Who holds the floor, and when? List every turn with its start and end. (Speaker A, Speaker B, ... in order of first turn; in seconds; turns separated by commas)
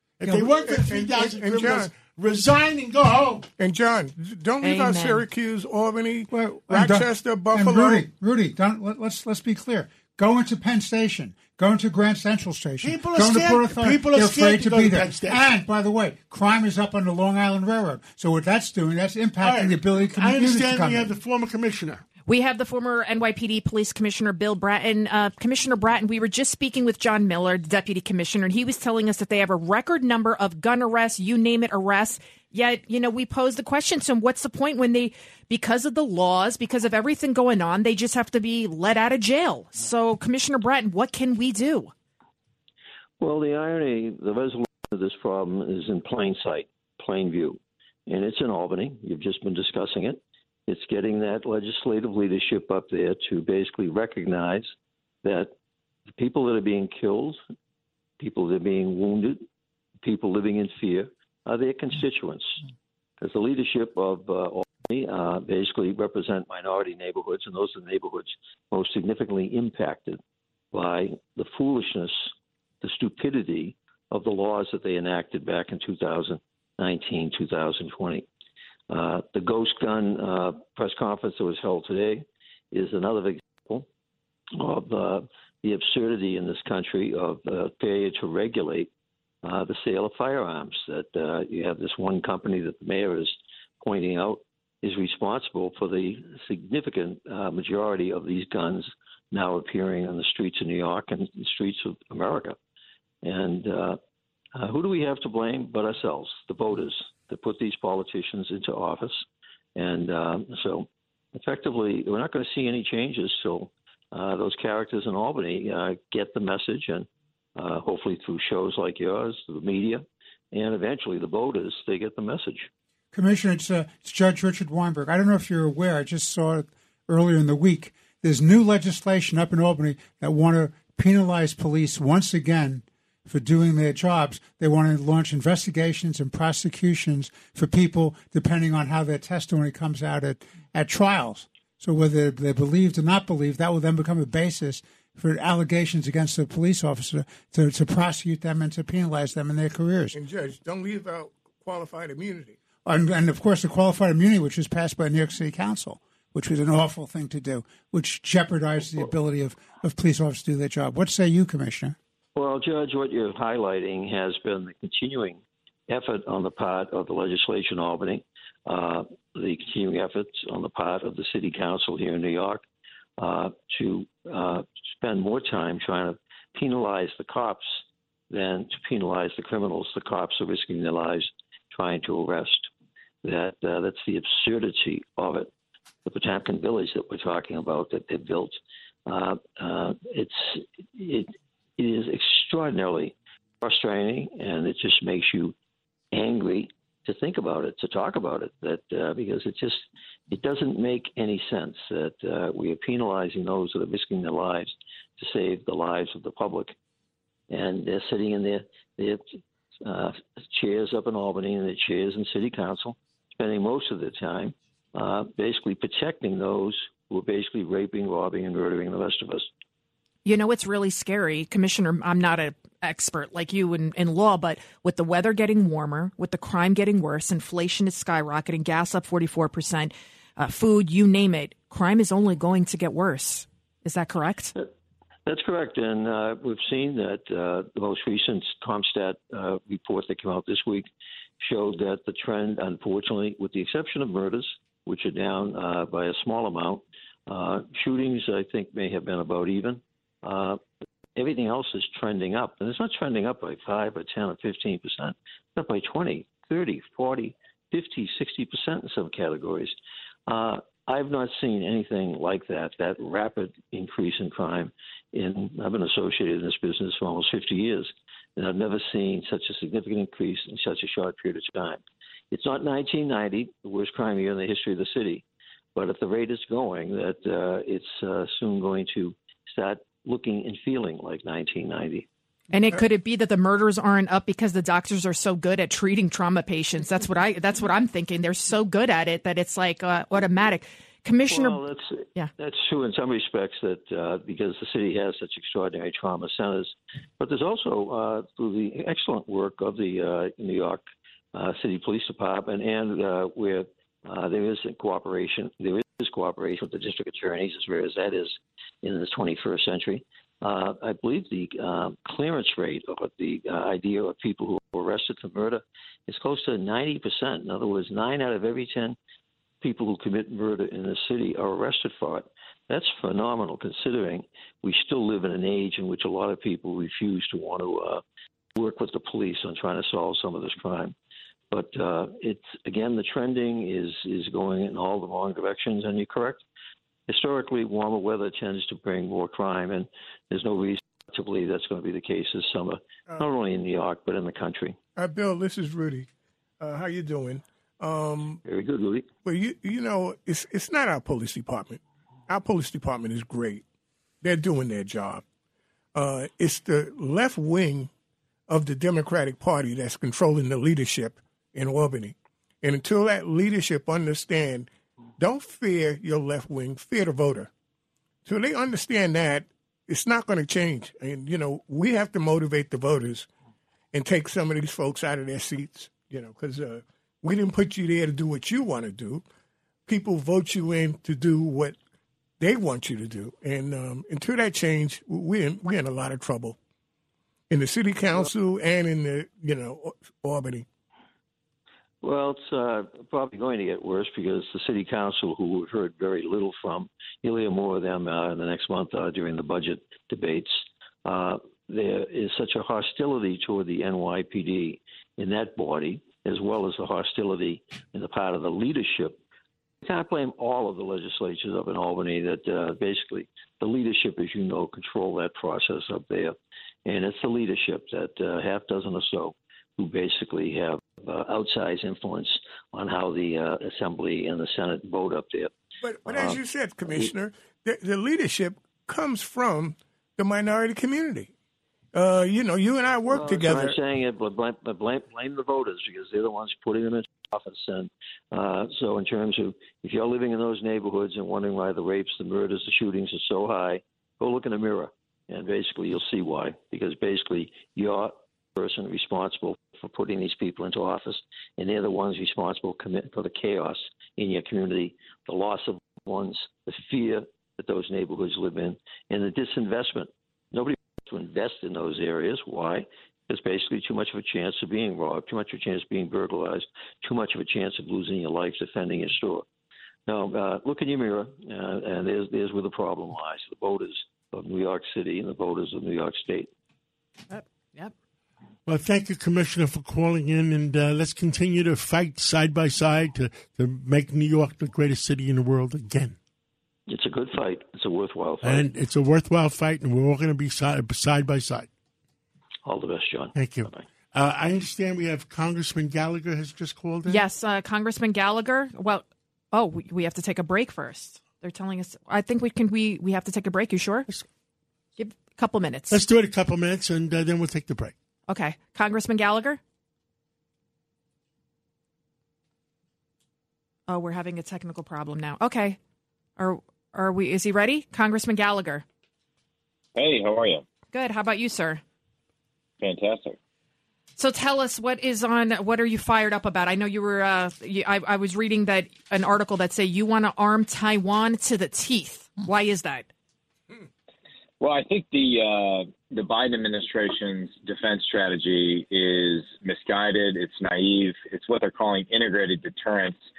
Speaker A: 0.2-3.5, Speaker B: 0.5-1.9, Speaker B: 3.6-8.1, Speaker C: 4.6-5.2, Speaker D: 6.3-21.1, Speaker A: 12.8-15.4, Speaker A: 19.4-22.0, Speaker C: 22.2-41.9, Speaker E: 43.2-54.7, Speaker E: 55.2-55.5, Speaker E: 56.1-57.4, Speaker E: 58.2-59.4, Speaker E: 60.0-62.6, Speaker E: 63.2-70.2, Speaker E: 70.7-78.2, Speaker E: 78.9-83.9, Speaker E: 84.5-88.9, Speaker E: 89.4-102.6, Speaker E: 103.2-104.0, Speaker E: 104.5-122.7, Speaker D: 123.1-150.2, Speaker B: 150.1-152.6, Speaker D: 152.8-161.9, Speaker E: 162.3-172.6, Speaker E: 173.2-182.7, Speaker E: 183.2-185.5, Speaker E: 186.0-195.5, Speaker E: 196.1-206.8, Speaker E: 207.5-219.5, Speaker C: 220.2-234.5, Speaker E: 235.2-240.9, Speaker E: 241.4-250.6, Speaker E: 251.2-259.7, Speaker E: 260.3-275.2, Speaker E: 275.7-282.1, Speaker C: 282.5-291.6, Speaker E: 291.3-300.8, Speaker E: 301.3-319.0, Speaker E: 319.6-328.0, Speaker E: 328.5-330.9, Speaker E: 331.5-336.4, Speaker E: 337.1-344.8, Speaker B: 344.9-346.1, Speaker B: 346.6-348.4, Speaker E: 348.4-349.1, Speaker B: 349.2-353.6, Speaker B: 354.2-355.2, Speaker B: 355.9-357.9, Speaker B: 358.5-367.5, Speaker B: 368.2-373.3, Speaker B: 373.9-379.2, Speaker B: 379.9-381.8, Speaker B: 382.4-386.6, Speaker B: 387.5-390.6, Speaker E: 392.0-409.2, Speaker E: 409.8-425.5, Speaker B: 425.8-431.3, Speaker E: 426.1-426.4, Speaker B: 431.9-433.8, Speaker E: 433.1-469.4, Speaker E: 470.1-476.5, Speaker C: 477.3-477.9, Speaker A: 478.6-486.1, Speaker E: 486.9-488.6, Speaker A: 488.4-491.7, Speaker E: 492.6-493.8, Speaker A: 493.3-497.2, Speaker C: 497.1-504.1, Speaker C: 505.0-506.0, Speaker A: 505.9-507.9, Speaker C: 508.3-509.6, Speaker C: 513.9-515.8, Speaker C: 516.4-518.8, Speaker F: 520.0-520.6, Speaker C: 520.9-521.8, Speaker F: 522.8-523.4, Speaker C: 524.2-533.1, Speaker F: 534.6-543.2